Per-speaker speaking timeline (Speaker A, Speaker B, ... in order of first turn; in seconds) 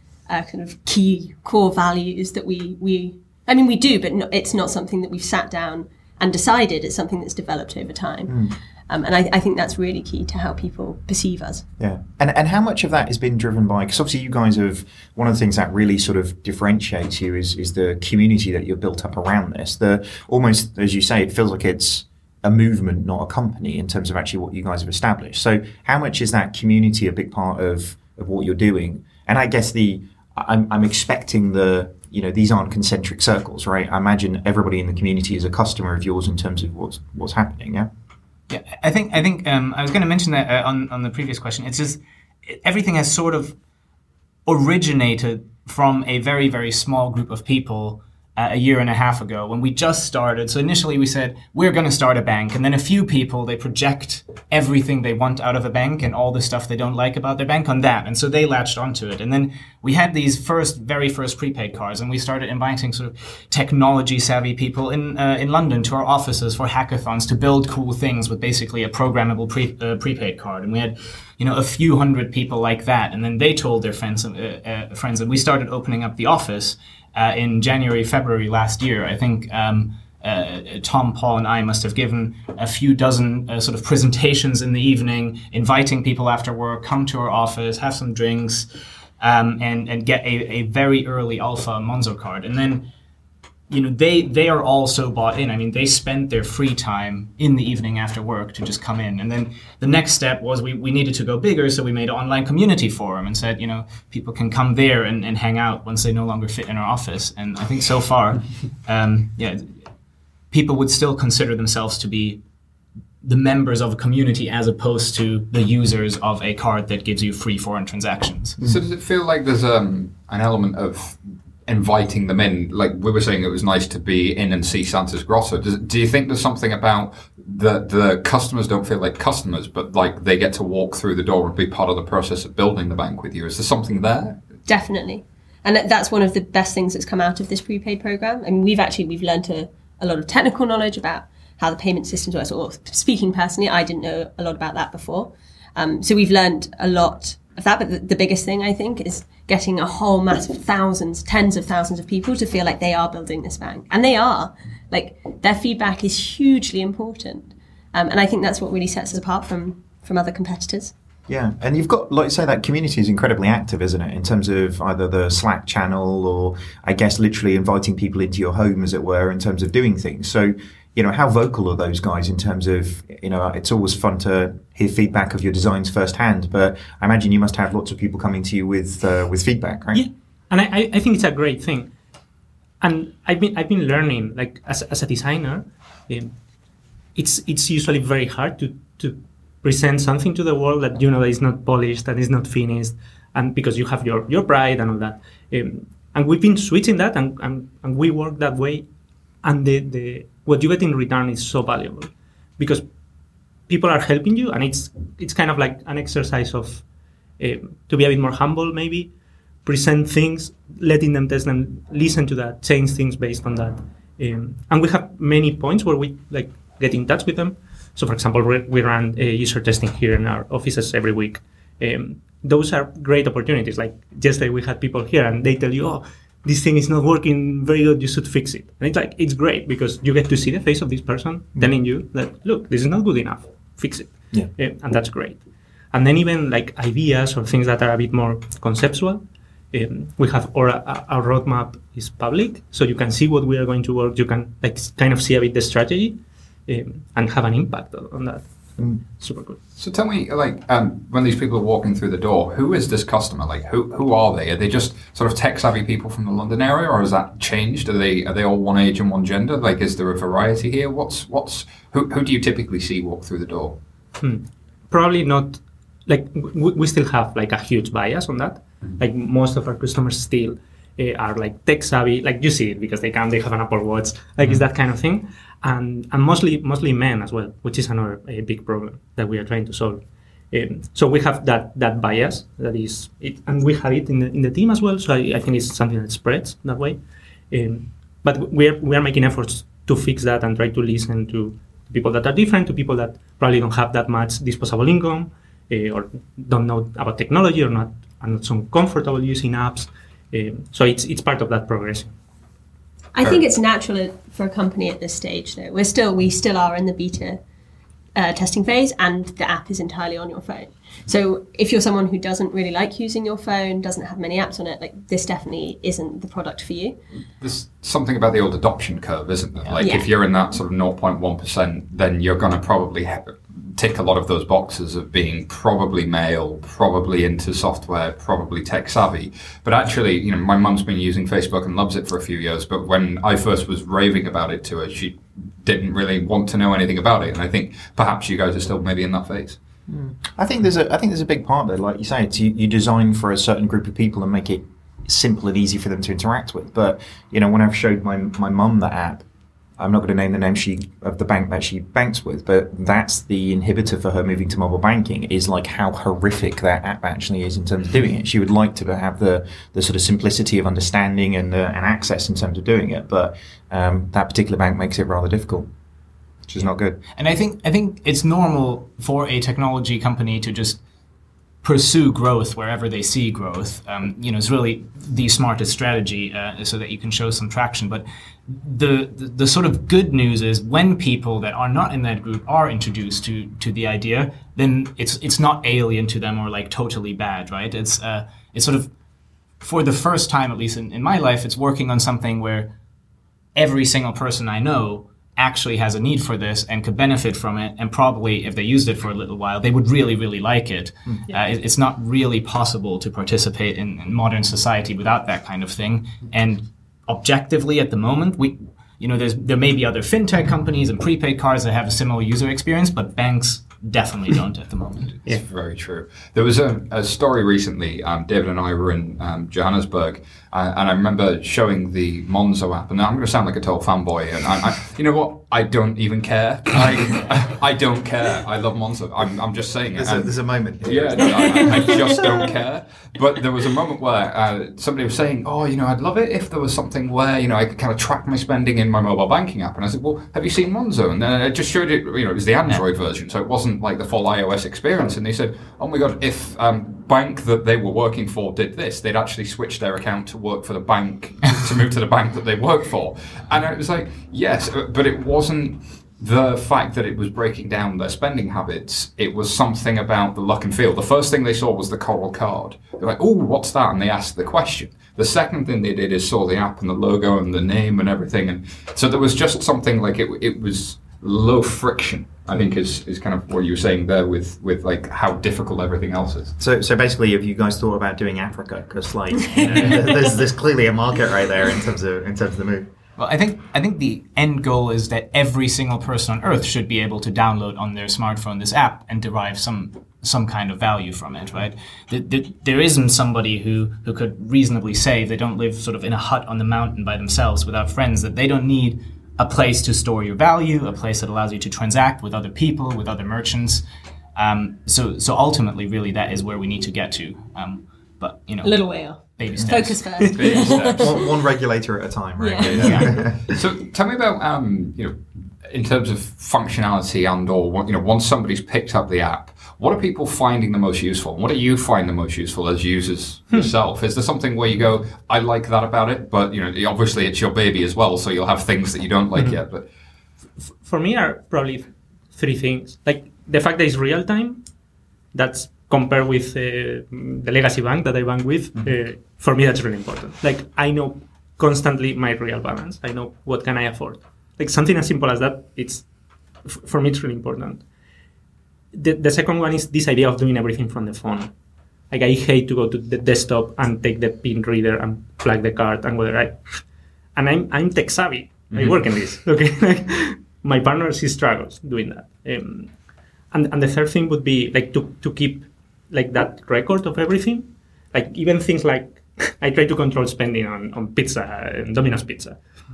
Speaker A: 0.3-11.6, 134.7-160.9, 303.1-307.4, 308.2-317.0, 319.8-320.1, 431.4-432.1, 508.6-511.2, 512.4-513.1
Speaker B: 8.3-8.6, 11.8-37.9, 161.3-180.1, 339.9-349.2, 349.8-365.7, 366.5-367.0, 429.9-432.2, 476.6-482.9, 510.4-513.5
Speaker C: 38.5-43.6, 44.5-88.7, 89.2-92.9, 93.7-109.8, 110.5-112.4, 113.2-118.6, 367.2-370.8, 371.6-388.9, 389.6-392.7, 393.6-415.2, 479.6-480.2, 483.2-503.8, 504.4-510.1, 512.8-513.1
Speaker D: 118.6-134.4, 249.8-263.8, 317.4-339.6, 415.2-476.6, 510.3-511.2, 512.9-529.9, 558.7-559.0
Speaker E: 179.9-181.9, 182.8-186.3, 187.2-198.8, 199.4-202.8, 203.7-206.8, 207.4-209.1, 209.6-235.4, 235.9-248.5, 249.1-249.6, 264.2-302.1, 529.4-529.6, 530.7-534.6, 535.3-546.1, 546.6-547.9, 548.9-551.5, 552.1-556.8, 557.4-562.9, 563.5-572.6